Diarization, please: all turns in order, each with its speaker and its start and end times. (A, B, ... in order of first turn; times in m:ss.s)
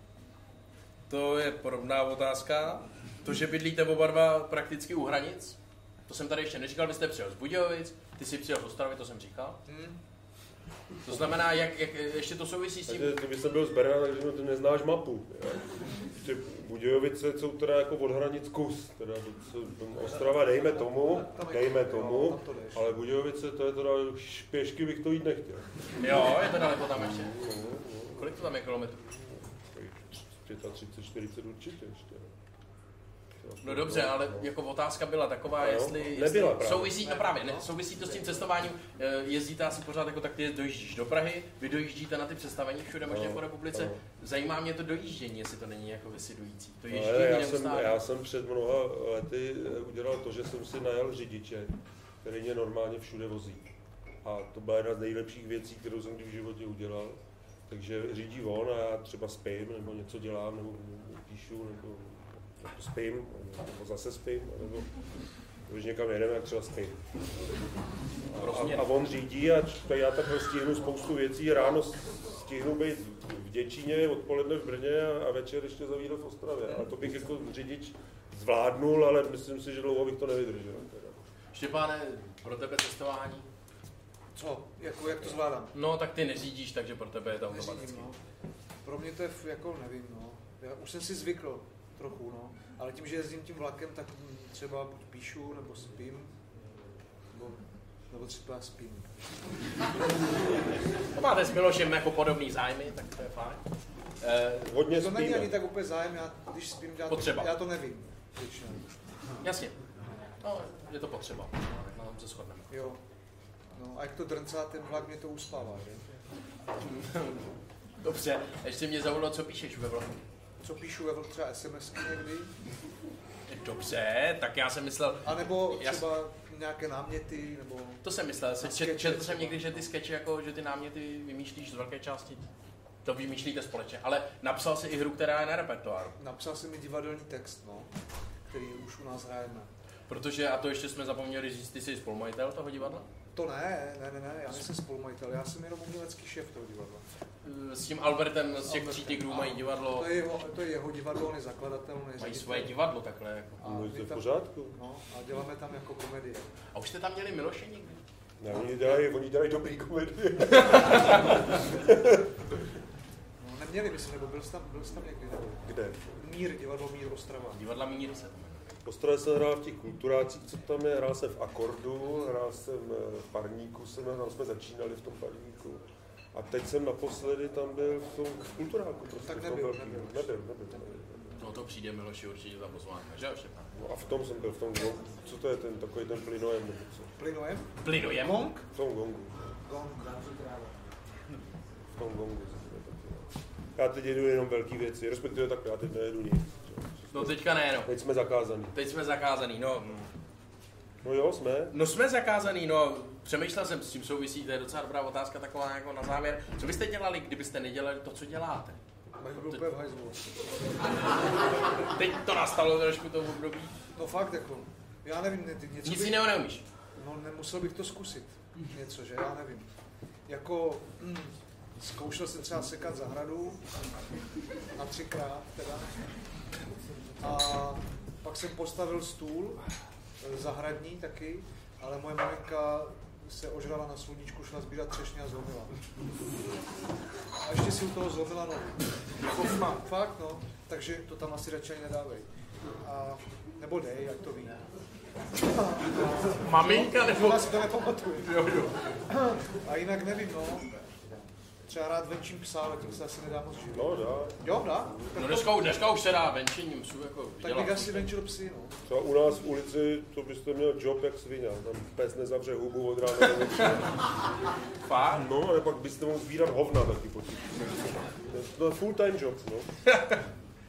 0:01.1-0:09.6 A
0:09.7-0:10.0 B
0:11.0-0:13.2 A
0:12.9-0:25.7 C
0:21.3-0:22.8 B
0:26.0-0:27.4 A
0:27.0-0:28.3 C
0:28.1-0:29.1 A
0:29.3-0:32.3 C
0:33.4-0:34.5 C
0:33.6-0:47.9 A
0:35.6-0:37.0 C
0:37.0-0:38.2 B
0:43.1-0:44.0 C
0:46.9-0:53.7 C
0:54.2-1:04.9 C
1:05.7-1:07.0 C
1:08.3-1:21.2 C
1:08.3-1:08.9 A
1:21.5-1:23.5 A
1:24.4-1:25.7 B
1:25.7-1:28.1 A
1:27.5-1:28.2 B
1:28.8-1:36.3 B
1:37.3-1:39.3 B
1:41.1-1:43.6 A
1:44.2-1:44.7 A
1:44.6-1:45.6 C
1:44.9-1:48.8 B
1:47.1-1:47.5 A
1:49.4-1:49.8 A
1:50.4-1:52.9 A
1:52.7-1:53.0 B
1:53.7-1:56.0 B
1:56.8-2:00.2 A
2:00.6-2:02.5 B
2:03.5-2:06.0 A
2:05.2-2:08.0 B
2:08.0-2:12.5 A
2:08.6-2:09.9 B
2:13.0-2:16.2 A
2:16.2-2:17.9 B
2:18.4-2:19.7 B
2:20.1-2:23.1 A
2:23.3-2:27.0 B
2:27.4-2:30.1 A
2:28.6-2:32.7 B
2:32.2-2:33.6 A
2:33.6-2:36.5 B
2:33.6-2:34.8 C
2:36.7-2:38.0 A
2:38.4-2:42.2 C
2:40.6-2:41.3 A
2:43.4-2:47.6 B
2:45.6-2:46.1 C
2:47.5-2:48.8 A
2:48.8-3:01.4 C
2:59.2-3:00.3 B
3:01.4-3:03.7 A
3:03.7-3:07.1 C
3:07.2-3:08.7 B
3:07.8-3:08.5 A
3:08.7-3:09.5 C
3:09.6-3:10.6 B
3:12.0-3:18.7 C
3:17.1-3:17.9 A
3:18.7-3:20.1 A
3:21.0-3:21.7 C
3:21.7-3:28.8 A
3:29.2-3:30.2 B
3:29.3-3:29.6 A
3:31.8-3:33.7 A
3:33.9-3:36.2 B
3:35.8-3:36.6 A
3:37.0-3:39.7 B
3:40.3-3:43.6 B
3:44.7-3:46.0 B
3:47.2-3:49.6 B
3:50.2-3:55.7 B
3:57.4-4:02.3 B
4:02.8-4:04.6 B
4:05.4-4:08.4 B
4:06.4-4:07.7 A
4:08.2-4:08.8 A
4:09.1-4:10.8 B
4:11.7-4:15.6 B
4:13.7-4:14.4 C
4:15.1-4:18.1 A
4:17.4-4:18.8 B
4:18.9-4:24.0 C
4:24.8-4:25.3 A
4:25.1-4:29.7 C
4:29.8-4:30.2 A